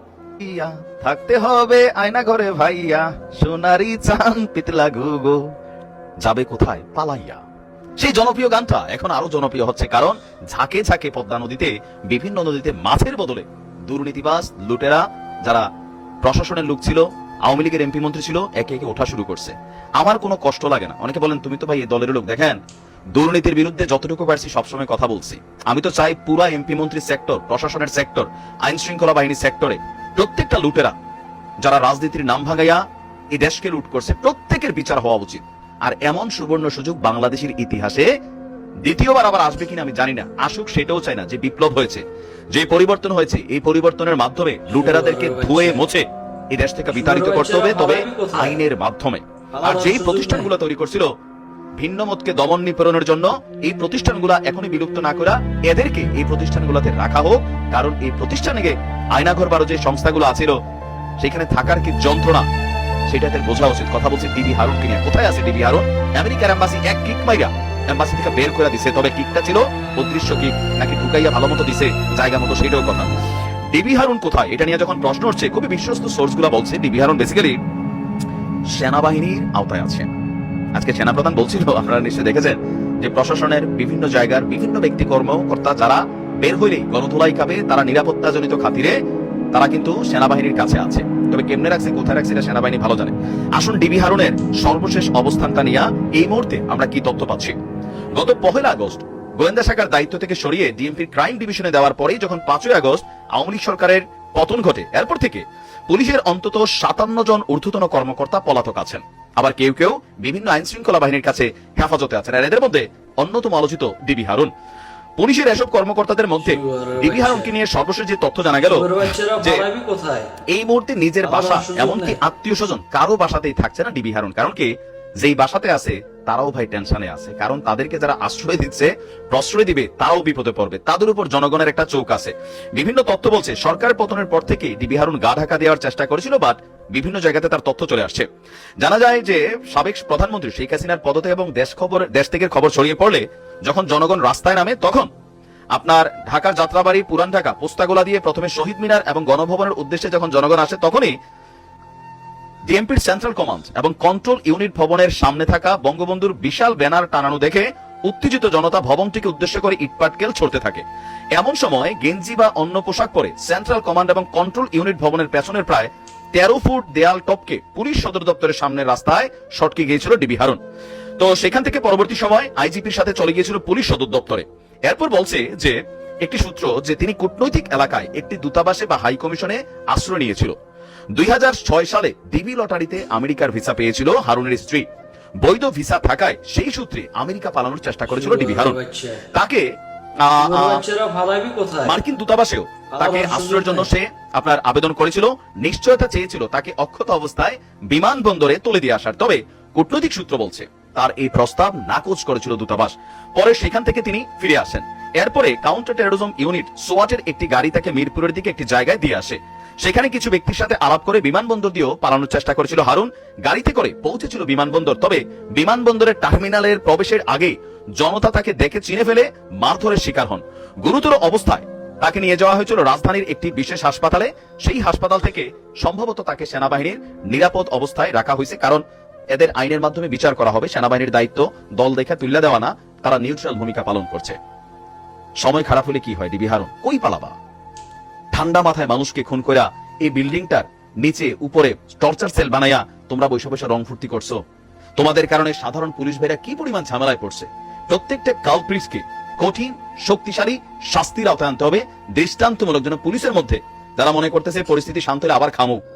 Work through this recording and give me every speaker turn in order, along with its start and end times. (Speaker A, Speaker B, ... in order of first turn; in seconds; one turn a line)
Speaker A: 0.4-5.4
Speaker A: 6.2-7.4
Speaker A: 8.0-15.6
Speaker A: 16.2-22.6
Speaker A: 23.1-30.9
Speaker A: 31.6-32.8
Speaker A: 33.3-38.1
Speaker A: 38.8-51.1
Speaker B: 44.7-45.8
Speaker B: 46.9-48.6
Speaker B: 49.5-50.5
Speaker A: 51.8-60.5
Speaker A: 61.2-62.4
Speaker A: 63.1-73.1
Speaker A: 73.7-77.6
Speaker A: 78.7-80.1
Speaker A: 80.7-89.0
Speaker A: 89.5-97.5
Speaker A: 98.2-114.5
Speaker A: 115.2-119.6
Speaker B: 116.4-117.5
Speaker B: 118.7-120.3
Speaker A: 120.5-124.7
Speaker B: 121.2-122.2
Speaker A: 125.2-138.2
Speaker A: 138.8-145.1
Speaker A: 145.7-151.1
Speaker A: 152.7-160.8
Speaker A: 161.3-170.6
Speaker A: 171.2-180.5
Speaker A: 181.1-184.8
Speaker A: 185.4-188.8
Speaker B: 188.1-189.2
Speaker A: 189.3-189.6
Speaker A: 190.2-190.8
Speaker B: 190.4-192.0
Speaker A: 191.8-234.4
Speaker B: 192.9-193.9
Speaker A: 235.4-237.3
Speaker A: 238.3-244.4
Speaker A: 245.0-255.8